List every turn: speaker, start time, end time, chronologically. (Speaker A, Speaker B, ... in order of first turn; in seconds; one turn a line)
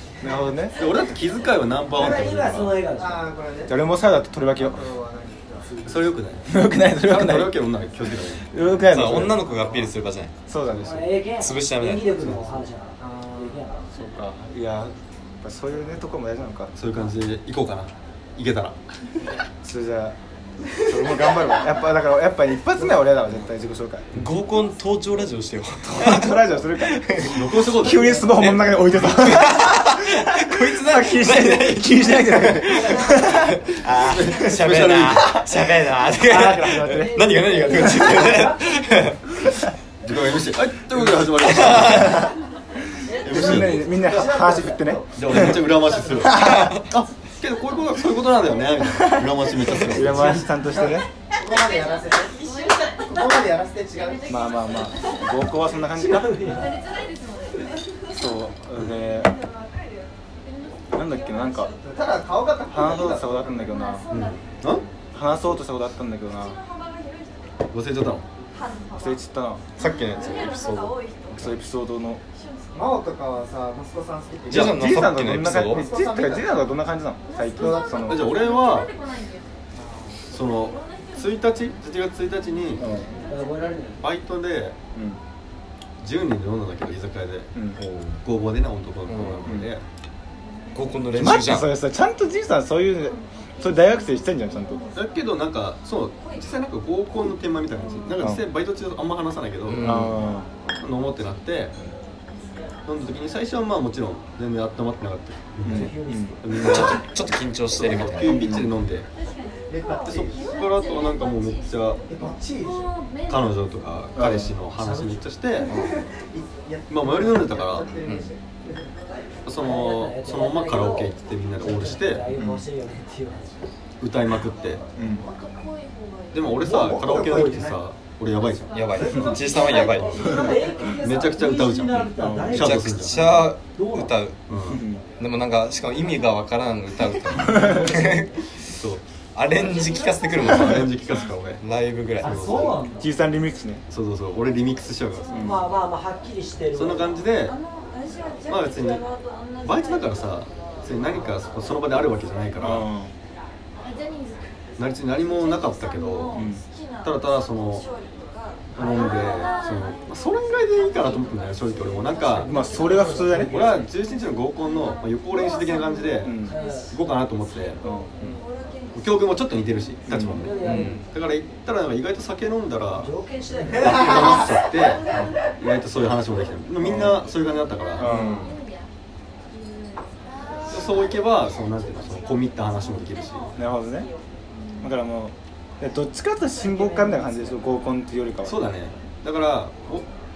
Speaker A: 0.2-0.8
Speaker B: 0.8-2.8
Speaker C: 1.9-3.3
Speaker D: 2.0-2.3
Speaker D: 2.9-3.8
Speaker A: 3.7-4.8
Speaker D: 4.6-5.7
Speaker C: 5.7-6.1
Speaker B: 5.8-6.5
Speaker A: 6.5-7.6
Speaker B: 7.0-8.5
Speaker A: 8.4-9.4
Speaker E: 8.9-10.3
Speaker A: 10.5-11.1
Speaker C: 10.8-13.8
Speaker E: 11.3-12.3
Speaker B: 12.1-12.6
Speaker D: 13.0-13.6
Speaker A: 13.9-16.7
Speaker B: 16.8-18.8
Speaker A: 19.6-20.2
Speaker A: 20.8-24.1
Speaker E: 24.1-27.4
Speaker A: 25.9-33.6
Speaker B: 27.2-28.5
Speaker E: 28.3-39.7
Speaker B: 33.8-35.5
Speaker A: 36.2-38.2
Speaker C: 37.8-38.8
Speaker B: 40.0-42.3
Speaker E: 41.4-42.3
Speaker A: 41.9-42.3
Speaker A: 43.1-46.8
Speaker B: 43.2-43.9
Speaker D: 43.4-46.4
Speaker B: 45.1-50.5
Speaker E: 46.3-46.9
Speaker E: 49.7-50.1
Speaker A: 49.8-51.1
Speaker D: 50.1-54.4
Speaker A: 54.3-56.7
Speaker C: 55.9-56.8
Speaker A: 58.1-59.4
Speaker A: 60.9-61.7
Speaker D: 61.8-63.7
Speaker A: 62.7-64.1
Speaker B: 64.1-64.8
Speaker A: 65.1-66.6
Speaker B: 67.7-68.2
Speaker A: 69.0-69.7
Speaker E: 69.8-71.6
Speaker A: 71.3-72.2
Speaker D: 72.7-76.5
Speaker E: 74.5-75.9
Speaker A: 74.5-78.3
Speaker B: 77.9-78.9
Speaker D: 79.8-80.4
Speaker B: 80.3-82.9
Speaker A: 82.8-83.1
Speaker C: 83.3-84.0
Speaker B: 84.0-84.8
Speaker A: 85.0-85.2
Speaker B: 86.0-87.5
Speaker E: 87.8-88.2
Speaker B: 88.2-89.8
Speaker E: 89.1-89.6
Speaker E: 90.7-91.7
Speaker A: 91.1-94.8
Speaker B: 95.0-99.9
Speaker A: 98.2-98.4
Speaker E: 99.7-100.3
Speaker A: 99.8-100.5
Speaker B: 100.8-101.8
Speaker B: 102.9-107.1
Speaker A: 105.6-106.3
Speaker C: 105.6-106.8
Speaker E: 106.5-108.5
Speaker B: 107.7-109.1
Speaker A: 108.2-108.7
Speaker D: 109.7-110.5
Speaker B: 110.1-112.0
Speaker D: 112.1-112.9
Speaker B: 113.3-115.7
Speaker A: 114.2-114.6
Speaker C: 114.8-115.2
Speaker D: 115.7-118.9
Speaker E: 115.7-116.0
Speaker B: 116.9-118.0
Speaker E: 118.0-118.3
Speaker B: 119.5-122.3
Speaker C: 119.6-123.6
Speaker A: 122.3-122.7
Speaker B: 124.0-124.8
Speaker A: 125.0-125.3
Speaker B: 126.3-128.8
Speaker C: 126.5-127.8
Speaker D: 126.7-127.8
Speaker E: 128.7-130.3
Speaker D: 129.0-129.7
Speaker C: 129.2-134.1
Speaker B: 131.0-133.4
Speaker E: 131.9-134.4
Speaker A: 132.2-132.7
Speaker B: 134.5-134.8
Speaker A: 134.7-135.0
Speaker E: 135.2-138.4
Speaker A: 137.4-138.0
Speaker C: 137.4-138.3
Speaker B: 138.7-139.0
Speaker E: 139.3-140.9
Speaker B: 140.4-141.6
Speaker E: 141.6-142.6
Speaker B: 142.2-142.8
Speaker C: 142.2-143.1
Speaker A: 143.0-143.8
Speaker B: 143.9-145.6
Speaker A: 145.3-145.7
Speaker C: 145.3-147.2
Speaker B: 146.7-147.6
Speaker B: 148.5-149.1
Speaker B: 149.6-152.9
Speaker A: 152.6-153.1
Speaker B: 154.8-156.4
Speaker A: 156.3-156.6
Speaker B: 157.0-157.9
Speaker B: 158.7-162.6
Speaker C: 162.2-163.9
Speaker A: 162.4-163.7
Speaker B: 163.5-166.4
Speaker A: 166.2-166.6
Speaker C: 166.4-166.9
Speaker B: 166.9-167.8
Speaker A: 167.8-168.4
Speaker B: 168.9-173.1
Speaker A: 170.1-170.4
Speaker C: 170.2-171.0
Speaker E: 170.6-171.1
Speaker C: 172.9-174.4
Speaker B: 173.8-178.1
Speaker A: 176.8-177.2
Speaker A: 178.0-178.6
Speaker E: 178.0-178.6
Speaker B: 180.6-183.5
Speaker A: 183.6-184.1
Speaker A: 184.8-188.6
Speaker C: 186.9-187.5
Speaker B: 188.4-190.1